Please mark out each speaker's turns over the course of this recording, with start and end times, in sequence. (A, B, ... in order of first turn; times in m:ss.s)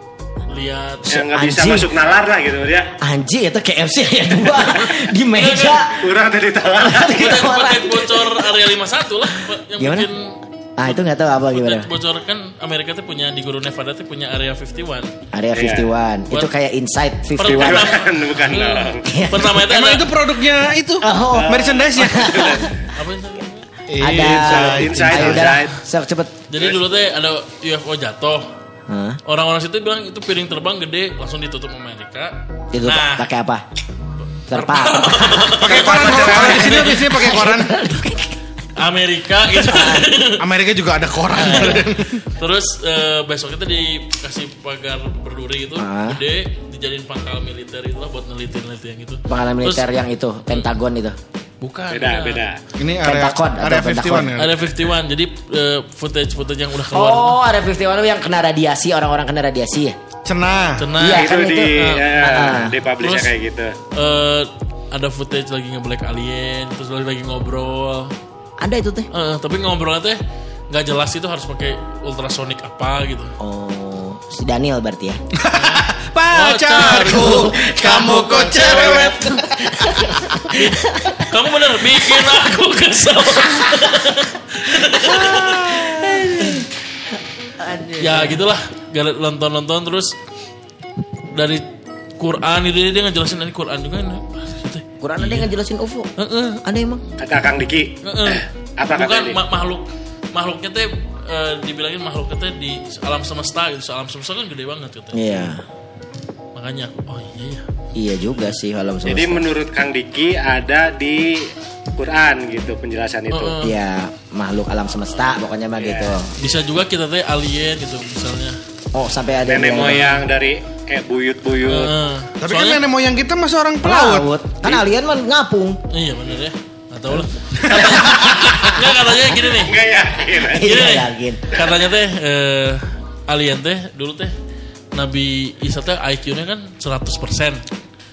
0:00.5-0:01.2 A
0:01.1-0:01.9 B
0:01.1-0:02.9 C
0:03.0-0:05.9 B
0:04.6-0:05.9 A
0:06.0-0:07.3 C
0:06.8-0:08.5 B
0:07.1-0:15.1 A
0:09.8-0:10.1 B
0:10.8-0:11.9 B
0:15.3-0:17.9 B
0:15.5-0:15.9 C
0:17.4-0:20.1 A
0:17.4-0:19.0 C
0:19.1-0:19.6 B
0:19.6-0:22.3 D
0:21.0-0:22.7 B
0:21.3-0:22.7 C
0:22.9-0:23.7 A
0:23.9-0:25.5 D
0:24.0-0:26.3 B
0:24.3-0:25.7 C
0:26.5-0:28.4 A
0:28.9-0:29.2 B
0:29.2-0:33.3 A
0:32.7-0:33.6 B
0:34.5-0:36.4 B
0:34.5-0:37.3 A
0:35.6-0:37.8 D
0:35.7-0:36.8 C
0:37.0-0:38.3 B
0:38.8-0:40.4 A
0:39.6-0:40.0 B
0:40.4-0:42.2 D
0:41.3-0:41.9 B
0:41.4-0:41.8 A
0:42.4-0:49.9 A
0:45.8-0:46.2 B
0:49.3-0:51.2 B
0:51.6-0:52.4 A
0:51.9-0:52.6 C
0:52.8-0:54.6 D
0:53.0-0:54.3 B
0:54.4-0:57.4 A
0:56.9-1:00.0 B
1:00.2-1:00.8 D
1:00.8-1:03.3 A
1:01.0-1:01.7 B
1:01.1-1:03.7 C
1:02.3-1:02.7 B
1:03.9-1:08.1 A
1:08.6-1:09.1 B
1:09.1-1:10.2 A
1:10.7-1:13.3 A
1:13.4-1:15.2 B
1:15.4-1:20.5 D
1:15.6-1:19.2 A
1:16.9-1:21.2 B
1:20.5-1:25.7 A
1:24.9-1:26.7 B
1:25.3-1:26.3 D
1:27.6-1:28.4 B
1:28.0-1:30.1 A
1:31.3-1:31.6 A
1:32.2-1:35.5 A
1:35.0-1:36.1 B
1:36.2-1:36.6 A
1:36.6-1:37.0 B
1:37.2-1:39.4 C
1:38.0-1:45.4 A
1:45.1-1:45.6 B
1:46.5-1:47.6 A
1:47.9-1:49.4 B
1:49.0-1:51.4 C
1:52.0-1:53.5 C
1:53.3-1:53.7 A
1:53.6-1:56.3 B
1:55.8-1:56.2 C
1:56.4-1:58.6 A
1:58.9-2:00.0 B
1:59.4-2:01.9 C
1:59.8-2:00.2 A
2:01.7-2:02.8 A
2:02.4-2:04.3 D
2:03.8-2:05.8 B
2:05.9-2:09.7 A
2:07.1-2:09.1 B
2:09.6-2:10.7 C
2:10.3-2:11.4 B
2:10.6-2:14.3 A
2:14.9-2:17.6 A